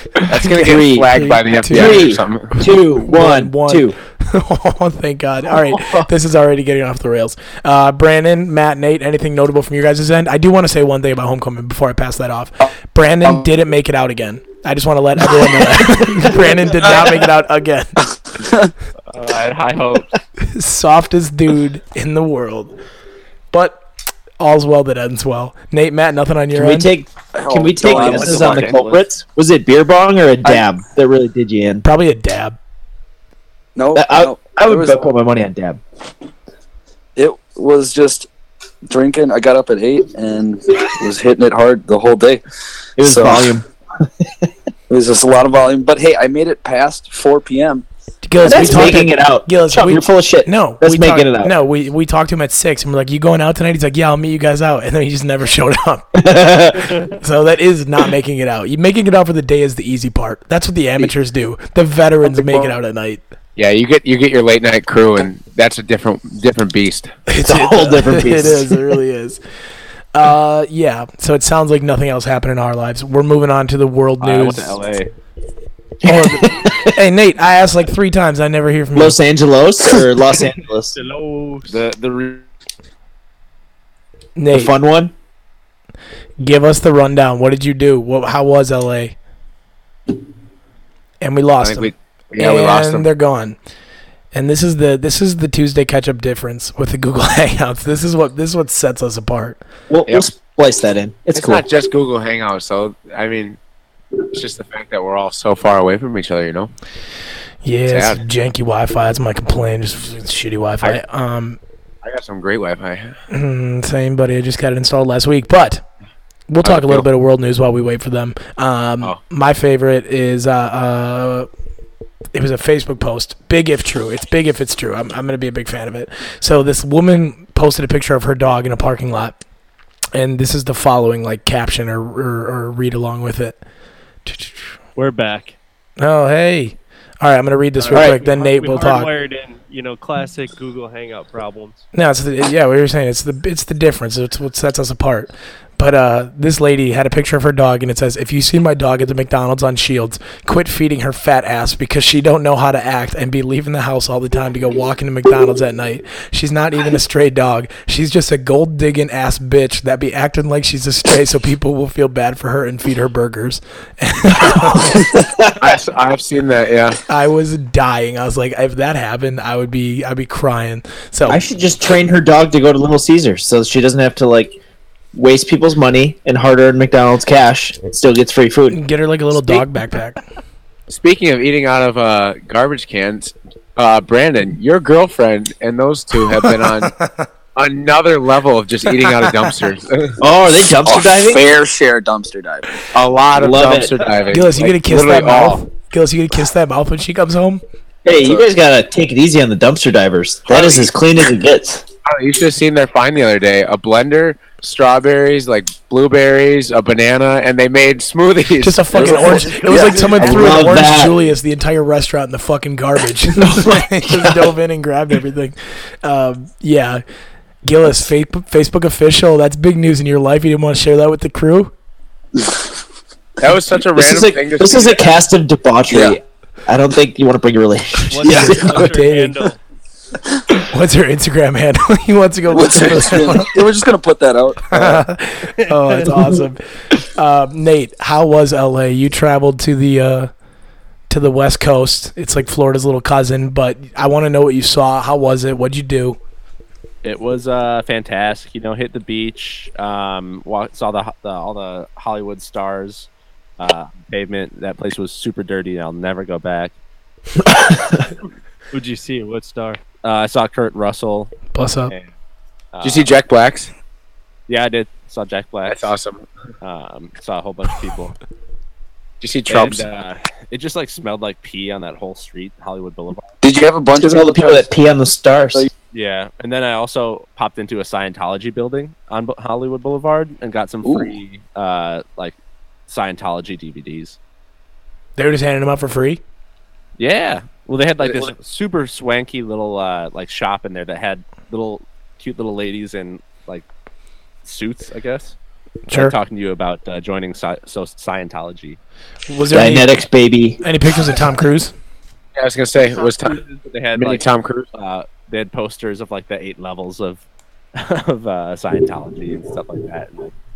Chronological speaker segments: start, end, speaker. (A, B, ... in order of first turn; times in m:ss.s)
0:00.2-0:18.1 A
0:00.3-0:02.5 B
0:00.5-0:01.1 C
0:01.7-0:04.0 C
0:05.5-0:06.1 C
0:18.4-0:18.7 D
0:19.1-0:20.1 E
0:20.4-0:22.7 A
0:23.5-0:23.8 A
0:24.4-0:26.9 A
0:26.5-0:31.8 C
0:27.3-0:28.8 D
0:27.8-0:29.0 E
0:31.8-0:32.6 A
0:33.8-0:35.0 D
0:33.9-0:35.8 C
0:37.2-0:38.3 D
0:38.9-0:42.4 D
0:43.0-0:43.6 C
0:43.0-0:43.5 D
0:44.9-0:47.8 D
0:48.2-0:56.2 A
0:48.4-0:48.9 D
0:48.4-0:51.5 C
0:56.1-0:57.0 C
0:57.2-1:03.2 A
1:02.2-1:02.8 D
1:03.6-1:07.1 B
1:07.3-1:09.4 A
1:07.4-1:08.8 C
1:10.1-1:14.8 A
1:14.2-1:15.1 E
1:16.0-1:16.8 C
1:16.0-1:19.2 A
1:18.9-1:21.0 C
1:20.9-1:21.7 F
1:21.7-1:22.4 E
1:24.4-1:24.7 A
1:24.5-1:25.1 C
1:26.4-1:29.2 A
1:31.2-1:33.6 A
1:31.6-1:33.1 B
1:34.3-1:39.6 A
1:39.9-1:41.6 C
1:41.3-1:43.6 B
1:44.3-1:46.7 B
1:47.6-1:51.6 A
1:47.9-1:48.2 B
1:52.0-1:53.2 B
1:53.3-1:55.8 A
1:56.5-2:01.5 A
1:56.6-1:57.0 B
2:02.3-2:09.4 A
2:10.1-2:13.6 A
2:14.2-2:14.7 A
2:15.0-2:15.5 F
2:16.0-2:19.1 A
2:17.8-2:21.8 F
2:21.9-2:45.1 A
2:44.4-2:45.7 C
2:45.6-2:47.0 B
2:47.1-2:51.4 A
2:51.2-2:54.6 C
2:55.1-2:58.8 C
2:58.7-3:00.2 A
3:00.9-3:06.9 B
3:06.5-3:07.1 A
3:07.5-3:10.2 B
3:10.2-3:11.4 C
3:10.8-3:12.8 D
3:12.9-3:15.6 B
3:13.3-3:13.9 C
3:14.3-3:17.6 A
3:18.0-3:21.8 C
3:18.1-3:18.5 D
3:22.1-3:29.7 B
3:28.6-3:37.0 A
3:29.0-3:30.7 D
3:30.2-3:31.2 C
3:33.4-3:34.5 C
3:37.6-3:41.7 A
3:43.4-3:45.1 B
3:43.9-3:48.6 C
3:45.9-3:46.2 D
3:48.1-3:49.6 F
3:48.2-3:49.4 A
3:48.2-3:48.7 D
3:50.7-3:53.5 A
3:52.5-3:55.0 D
3:54.7-4:00.3 A
3:55.7-3:56.1 F
4:01.1-4:06.2 A
4:07.0-4:13.1 E
4:13.6-4:16.7 E
4:17.4-4:18.0 C
4:18.7-4:19.8 F
4:20.0-4:21.3 E
4:21.5-4:21.9 A
4:22.7-4:23.1 E
4:22.8-4:23.7 B
4:24.5-4:25.9 E
4:25.7-4:26.3 B
4:26.6-4:28.2 E
4:29.2-4:29.9 B
4:29.5-4:33.3 E
4:33.4-4:34.7 D
4:34.0-4:35.7 C
4:35.9-4:42.4 E
4:40.8-4:41.2 D
4:42.9-4:44.2 E
4:45.2-4:46.2 A
4:47.0-4:53.6 E
4:48.0-4:48.3 B
4:54.4-4:55.4 E
4:55.9-4:56.2 A
4:55.9-4:58.8 E
4:59.3-4:59.9 A
4:59.5-5:00.6 C
5:00.6-5:01.7 A
5:02.4-5:03.4 B
5:03.0-5:04.2 E
5:03.9-5:04.7 B
5:04.7-5:07.2 E
5:07.7-5:10.3 E